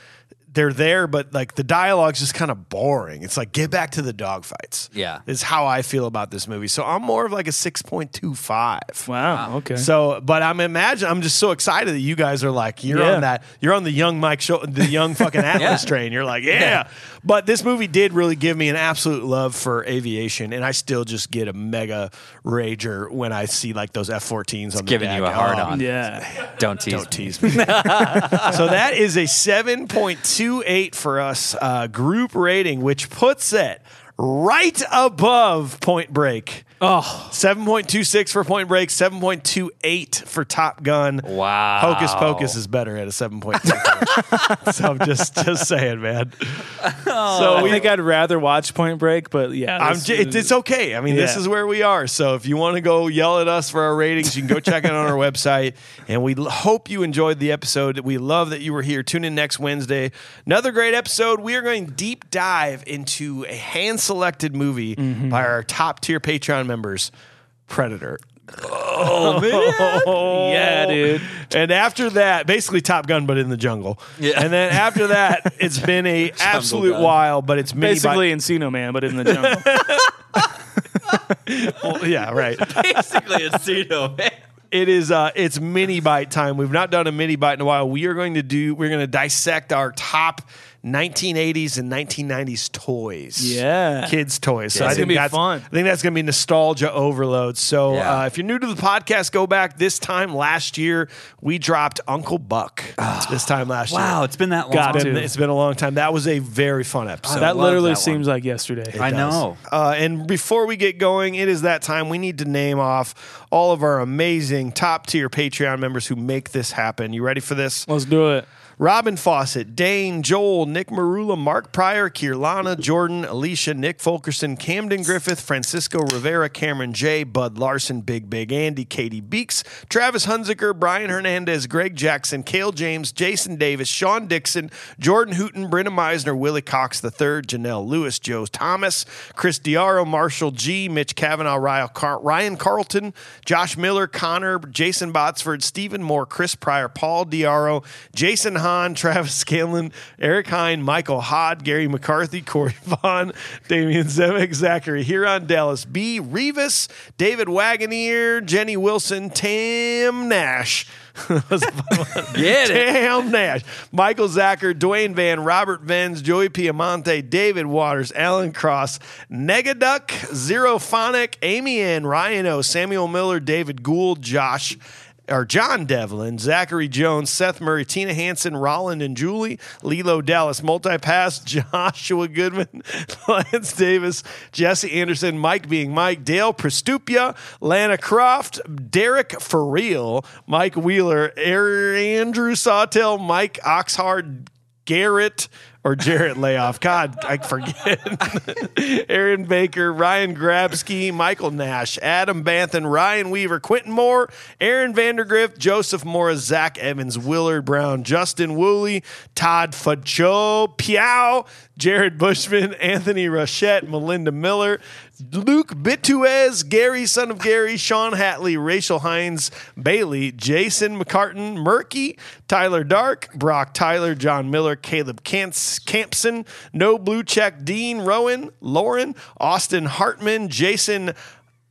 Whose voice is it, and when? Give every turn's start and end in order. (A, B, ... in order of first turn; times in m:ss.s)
0:00.5-0:09.1 A
0:04.9-0:05.2 B
0:09.1-0:09.9 C
0:09.7-0:25.8 A
0:12.9-0:13.3 C
0:15.6-0:15.9 B
0:24.8-0:28.7 B
0:25.7-0:26.5 C
0:26.9-0:36.7 A
0:27.7-0:28.5 C
0:36.8-0:37.4 C
0:37.3-0:46.8 A
0:41.2-0:42.6 B
0:44.0-0:44.5 B
0:46.8-0:47.9 B
0:47.3-0:47.9 A
0:47.5-0:50.5 C
0:49.8-1:07.1 A
0:51.1-0:51.4 C
1:05.0-1:05.5 C
1:07.7-1:18.3 A
1:09.1-1:11.4 C
1:14.2-1:15.4 B
1:16.3-1:17.2 B
1:17.8-1:19.7 C
1:19.2-1:20.1 A
1:21.4-1:23.2 A
1:21.8-1:24.4 B
1:24.7-1:44.2 A
1:33.4-1:34.2 C
1:34.7-1:35.1 B
1:34.8-1:35.7 C
1:37.9-1:38.2 B
1:43.0-1:45.3 B
1:44.7-1:45.3 C
1:44.8-1:47.6 A
1:47.2-1:48.2 B
1:47.3-1:49.0 C
1:48.9-1:57.9 A
1:49.0-1:49.6 B
1:57.9-1:58.5 C
1:58.8-3:51.2 A
2:42.3-2:42.9 B